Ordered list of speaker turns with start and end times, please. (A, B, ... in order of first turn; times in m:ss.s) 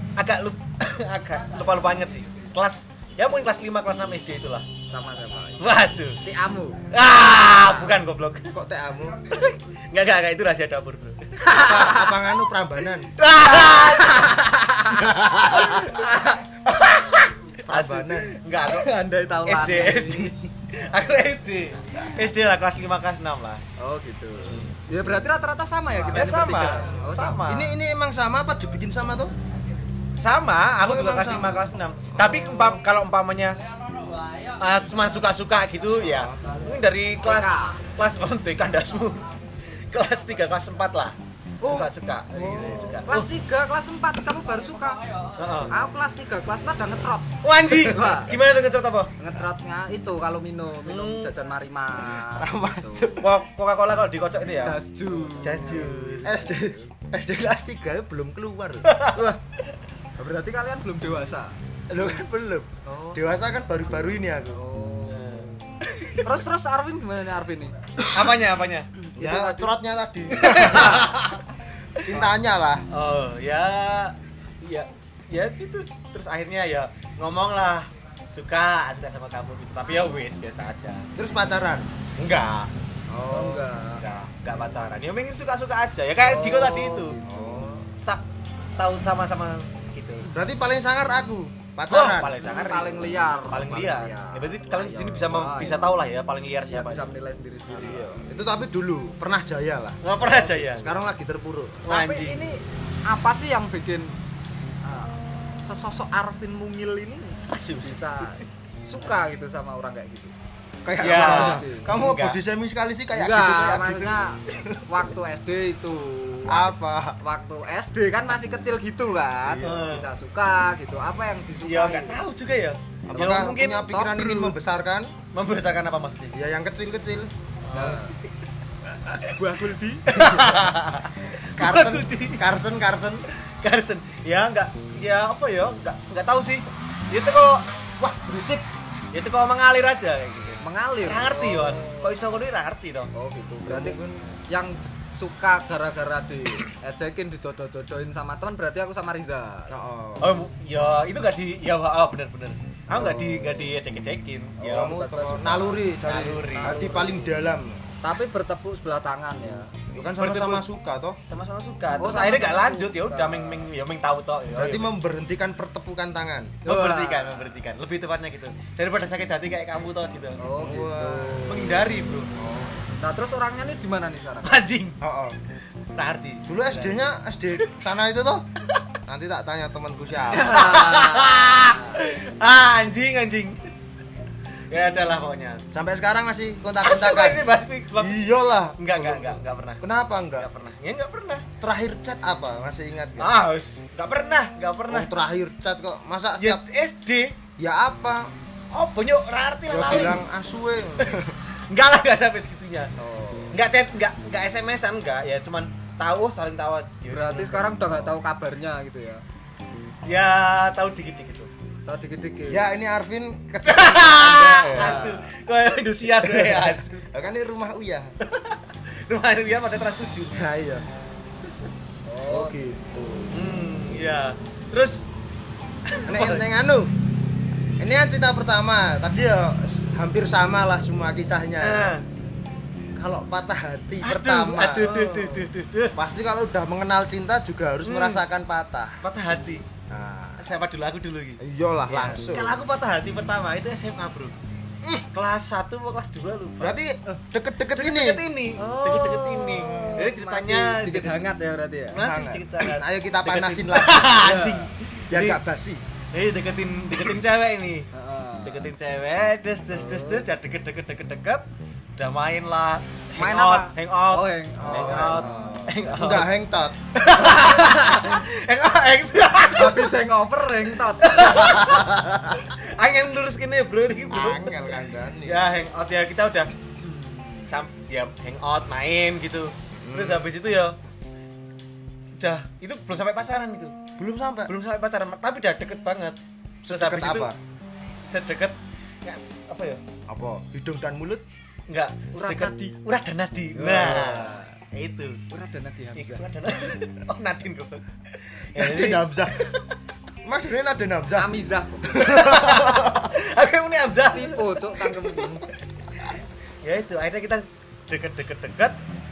0:00.2-0:04.7 A
0:04.8-0:06.9 B
0:05.6-0:06.2 A
0:06.9-0:08.5 A
0:07.4-0:07.9 B
0:08.5-0:09.2 C
0:09.3-0:11.3 A
0:11.4-0:12.1 B
0:11.5-0:13.1 C
0:13.2-0:14.4 A
0:13.4-0:16.4 B
0:14.9-0:15.8 C
0:16.6-0:23.6 A
0:17.7-0:18.3 C
0:18.6-0:20.4 B
0:23.8-0:27.4 B
0:24.4-0:24.7 A
0:26.1-0:27.7 A
0:27.4-0:29.3 C
0:30.2-0:33.6 A
0:30.8-0:32.8 C
0:34.6-0:39.2 A
0:36.0-0:36.5 C
0:37.2-0:37.8 B
0:39.9-0:43.3 A
0:41.6-0:43.1 C
0:43.0-0:45.0 B
0:45.4-0:45.7 A
0:45.7-0:48.3 B
0:47.4-0:49.1 A
0:49.2-0:53.1 B
0:50.8-0:51.3 A
0:52.2-0:53.3 C
0:53.2-0:56.4 A
0:54.6-0:56.9 B
0:56.2-0:59.4 C
0:58.8-0:59.3 A
1:00.2-1:01.5 B
1:01.9-1:04.6 C
1:02.8-1:03.2 B
1:04.5-1:05.5 B
1:05.1-1:06.2 A
1:06.1-1:07.8 B
1:08.1-1:08.9 A
1:09.2-1:09.7 B
1:09.2-1:11.2 C
1:10.4-1:11.4 A
1:10.4-1:11.2 B
1:12.0-1:12.8 C
1:12.9-1:21.1 A
1:21.2-1:21.9 C
1:22.2-1:22.7 A
1:23.1-1:23.7 C
1:23.3-1:24.0 B
1:24.0-1:27.2 A
1:26.2-1:27.7 B
1:27.2-1:27.9 C
1:28.8-1:30.3 A
1:30.2-1:32.4 C
1:31.9-1:37.1 A
1:32.4-1:36.0 B
1:36.7-1:38.2 B
1:37.7-1:38.0 A
1:37.8-1:41.8 C
1:40.0-1:40.9 A
1:41.8-1:42.4 A
1:41.9-1:44.2 B
1:44.8-1:50.3 B
1:47.5-1:48.4 A
1:50.8-1:54.8 C
1:51.0-1:51.9 B
1:51.0-1:52.4 A
1:53.1-2:02.2 B
1:56.5-1:57.2 C
1:59.4-2:00.0 C
1:59.6-2:00.1 A
2:01.6-2:03.8 A
2:03.1-2:05.1 C
2:03.1-2:04.5 B
2:05.3-2:06.3 A
2:06.3-2:07.3 C
2:07.6-2:08.1 A
2:07.7-2:08.2 B
2:09.2-2:10.1 B
2:10.1-2:12.4 A
2:11.6-2:13.2 C
2:13.6-2:17.6 A
2:18.0-2:18.7 C
2:19.1-2:23.1 A
2:20.6-2:22.2 B
2:23.1-2:29.7 B
2:23.6-2:24.1 C
2:29.7-2:30.4 C
2:30.2-2:35.0 A
2:32.9-2:33.7 B
2:34.6-2:35.8 B
2:34.6-2:37.8 C
2:36.0-2:36.9 A
2:36.5-2:37.3 B
2:38.0-2:39.7 B
2:39.9-2:41.2 C
2:40.2-2:40.6 A
2:41.3-2:44.9 A
2:42.0-2:43.7 B
2:44.5-2:46.6 C
2:46.6-2:50.4 A
2:46.6-2:47.6 B
2:50.4-2:51.7 B
2:50.6-2:52.9 C
2:51.5-2:52.3 A
2:53.0-2:54.5 B
2:54.4-2:55.0 A
2:55.0-2:55.4 C
2:55.9-2:57.0 A
2:56.5-2:58.4 C
2:59.1-3:00.7 C
3:00.3-3:01.7 B
3:00.5-3:03.7 A
3:04.7-3:05.6 A
3:05.7-3:10.5 C
3:06.8-3:08.2 A
3:08.8-3:09.8 A
3:10.4-3:11.4 A
3:11.6-3:13.4 C
3:13.2-3:15.1 A
3:14.9-3:16.6 C
3:16.4-3:17.4 A
3:17.6-3:18.3 C
3:18.7-3:20.2 A
3:19.7-3:21.4 C
3:21.0-3:22.9 A
3:23.0-3:23.5 B
3:23.5-3:27.9 A
3:27.1-3:29.2 B
3:30.0-3:31.5 A
3:31.8-3:32.7 B
3:32.5-3:35.1 C
3:33.6-3:37.0 A
3:34.7-3:35.3 B
3:36.2-3:38.1 C
3:38.2-3:40.4 A
3:40.3-3:40.8 C
3:42.0-3:42.6 B
3:42.2-3:43.5 C
3:43.3-3:45.0 A
3:45.9-3:46.4 A
3:46.0-3:46.9 C
3:47.8-3:52.0 C
3:51.6-3:52.0 A
3:53.0-3:55.0 C
3:54.0-3:56.0 A
3:54.8-3:55.5 B
3:55.9-3:59.0 C
3:57.8-3:58.2 A
3:59.0-3:59.6 A
3:59.9-4:00.5 C
4:00.4-4:04.3 A
4:01.4-4:02.6 C
4:05.1-4:06.8 A
4:06.6-4:08.2 C
4:07.7-4:11.3 A
4:08.6-4:12.0 B
4:11.9-4:15.4 A
4:12.0-4:14.5 C
4:14.2-4:14.7 B
4:15.1-4:15.8 C
4:16.1-4:17.9 A
4:17.9-4:18.7 B
4:18.4-4:21.4 A
4:19.7-4:20.3 B
4:22.0-4:26.3 A
4:23.2-4:25.6 B
4:24.7-4:26.8 C
4:26.9-4:29.9 A
4:27.1-4:28.2 B
4:29.5-4:31.8 B
4:31.0-4:34.6 A
4:31.3-4:32.4 C
4:34.1-4:35.4 C
4:35.2-4:36.5 A
4:36.8-4:37.5 B
4:37.5-4:40.8 A
4:39.8-4:40.3 C
4:42.2-4:43.8 A
4:44.0-4:44.5 C
4:44.5-4:46.2 A
4:46.6-4:47.4 C
4:46.7-4:47.3 A
4:48.1-4:49.8 A
4:50.1-4:51.2 C
4:51.7-4:55.2 A
4:52.2-4:52.8 B
4:53.6-4:54.3 C
4:53.8-4:54.5 B
4:55.3-4:56.2 B
4:56.0-4:57.8 A
4:58.5-4:59.6 A
4:58.6-4:59.5 C
5:00.2-5:03.1 C
5:01.1-5:02.0 B
5:02.0-5:05.3 A
5:04.0-5:05.5 B
5:06.6-5:08.8 A